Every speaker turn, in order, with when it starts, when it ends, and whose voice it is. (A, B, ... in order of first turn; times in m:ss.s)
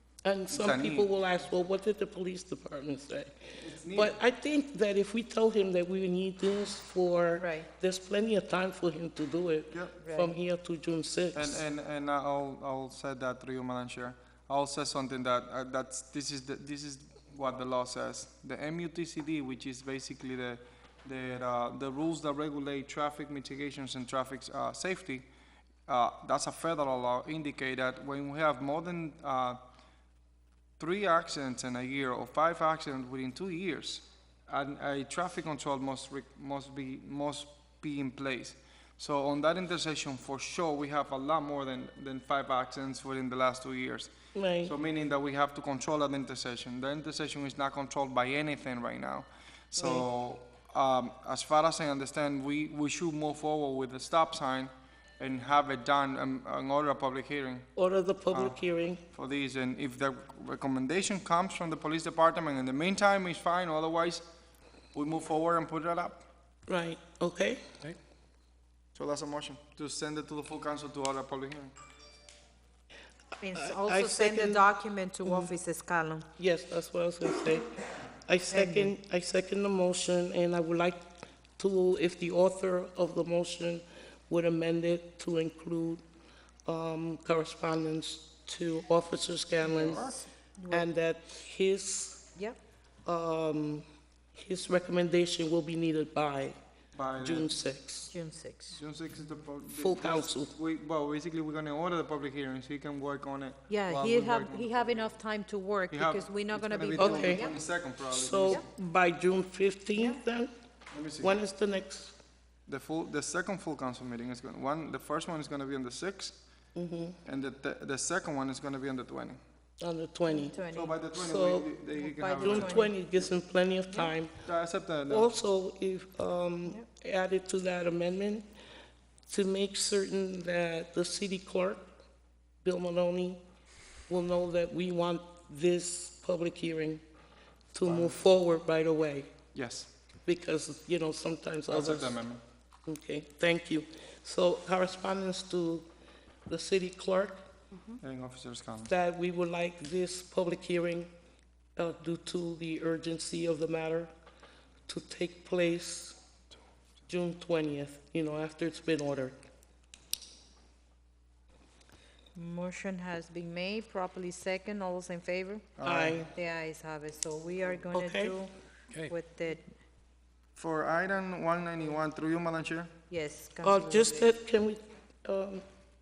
0:00.2-0:11.6 A
0:00.5-0:01.1 B
0:03.6-0:04.2 B
0:07.4-0:07.7 C
0:09.7-0:10.0 B
0:10.0-0:10.4 C
0:11.3-0:25.3 B
0:25.9-0:29.6 B
0:30.8-0:57.7 B
0:44.4-0:44.7 A
0:49.8-0:50.1 A
0:57.8-0:59.0 A
0:58.3-0:58.6 B
0:59.1-1:04.3 B
1:04.9-1:06.3 B
1:06.7-1:07.6 A
1:09.0-1:11.8 B
1:13.4-1:16.3 C
1:13.5-1:14.6 A
1:15.2-1:15.5 A
1:16.4-1:26.0 A
1:18.5-1:18.9 C
1:26.7-1:30.1 A
1:29.6-1:30.3 B
1:30.6-1:30.9 C
1:30.7-1:32.3 A
1:33.1-1:36.6 A
1:37.0-1:37.5 B
1:37.2-1:38.1 A
1:38.1-1:38.8 C
1:38.8-1:45.1 B
1:39.8-1:40.5 A
1:43.7-1:47.6 C
1:45.9-1:48.6 B
1:47.0-1:47.5 A
1:48.1-1:50.5 A
1:50.9-1:51.4 B
1:51.2-1:52.2 A
1:52.7-1:56.4 B
1:56.8-1:57.2 A
1:57.2-1:59.4 B
1:59.8-2:00.6 A
2:00.3-2:00.9 C
2:00.7-2:02.9 B
2:01.1-2:01.7 A
2:02.0-2:02.9 C
2:02.4-2:04.4 A
2:04.4-2:05.3 B
2:05.1-2:08.5 A
2:09.3-2:11.8 A
2:12.6-2:13.4 A
2:14.1-2:17.0 A
2:17.7-2:19.3 A
2:17.8-2:18.2 B
2:19.5-2:19.9 B
2:20.3-2:22.2 A
2:21.7-2:22.4 B
2:22.9-2:25.9 A
2:26.5-2:27.4 A
2:28.0-2:28.9 B
2:28.9-2:31.1 A
2:31.8-2:34.1 A
2:34.9-2:36.2 A
2:37.1-2:39.4 A
2:42.4-2:45.7 C
2:45.8-2:46.2 B
2:45.8-2:46.3 A
2:46.3-2:48.5 C
2:47.9-2:48.4 A
2:49.1-2:49.7 C
2:50.6-2:52.9 B
2:53.1-2:54.3 C
2:53.6-2:55.6 A